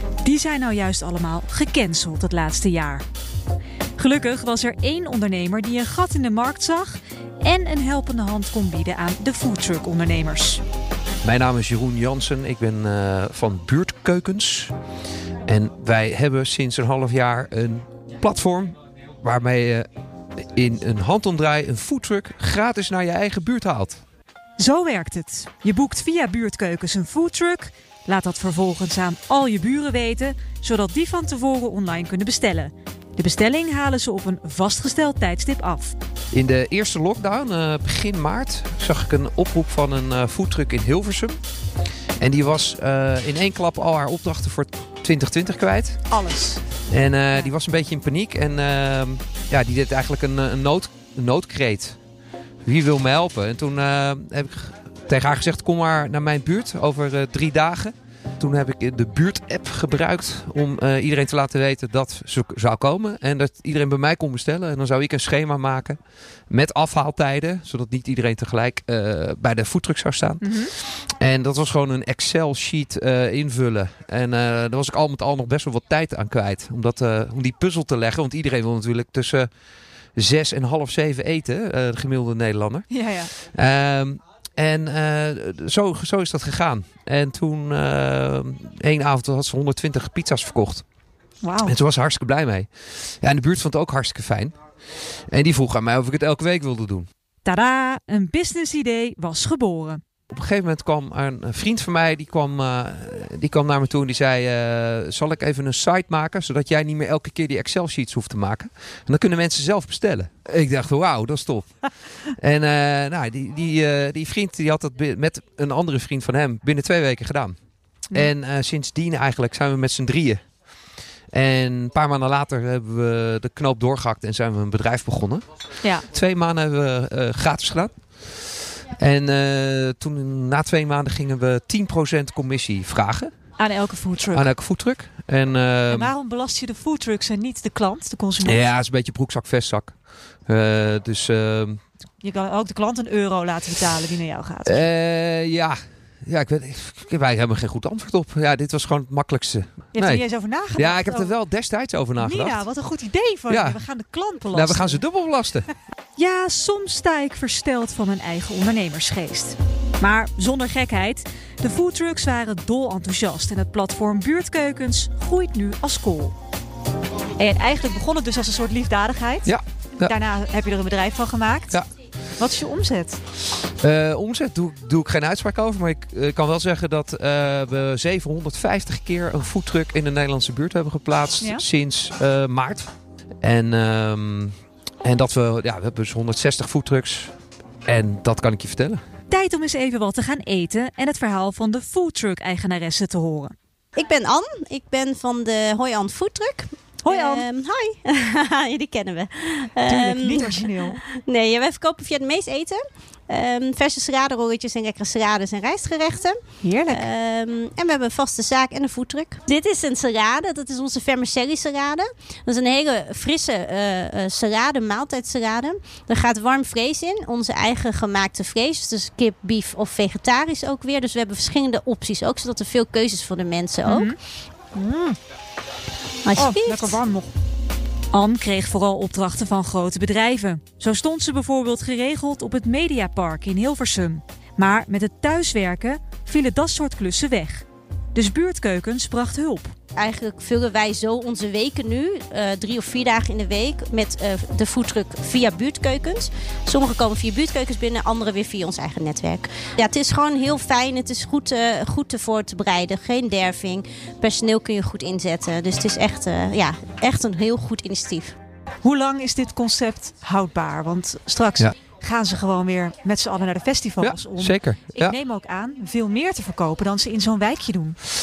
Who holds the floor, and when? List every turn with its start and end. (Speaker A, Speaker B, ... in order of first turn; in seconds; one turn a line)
Speaker A: 0.2-3.0
Speaker A: 4.0-10.6
Speaker B: 11.2-14.7
Speaker B: 15.4-24.0
Speaker A: 24.6-35.9
Speaker B: 36.3-41.4
Speaker B: 42.2-46.0
Speaker A: 46.1-46.6
Speaker B: 46.9-52.0
Speaker B: 52.6-66.0
Speaker B: 66.5-79.5
Speaker A: 70.4-70.7
Speaker B: 80.2-90.8
Speaker A: 82.9-83.3
Speaker A: 91.4-91.8
Speaker B: 91.6-97.1
Speaker A: 97.4-100.0
Speaker B: 100.3-117.5
Speaker B: 118.1-120.4
Speaker B: 121.3-125.4
Speaker A: 125.8-126.1
Speaker B: 126.1-133.3
Speaker A: 133.6-134.5
Speaker B: 134.3-136.1
Speaker A: 135.9-138.6
Speaker B: 138.4-141.8
Speaker A: 142.2-144.8
Speaker B: 144.6-150.2
Speaker A: 149.9-151.3
Speaker B: 150.7-152.7
Speaker A: 152.2-155.0
Speaker B: 153.5-153.8
Speaker B: 154.5-155.7
Speaker A: 156.2-166.3
Speaker A: 167.4-171.8
Speaker B: 169.4-170.1
Speaker A: 172.3-173.2
Speaker B: 173.6-182.9
Speaker A: 181.4-181.6
Speaker B: 183.4-187.3
Speaker B: 187.8-189.0
Speaker A: 189.3-193.5
Speaker C: 193.9-224.1
Speaker A: 197.0-197.4
Speaker A: 199.8-201.0
Speaker A: 206.6-207.1
Speaker A: 223.8-224.2
Speaker A: 224.7-225.2
Speaker C: 226.2-226.9
Speaker A: 226.3-227.3
Speaker A: 228.1-239.7
Speaker C: 239.9-258.3
Speaker A: 258.8-268.0
Speaker B: 264.0-265.1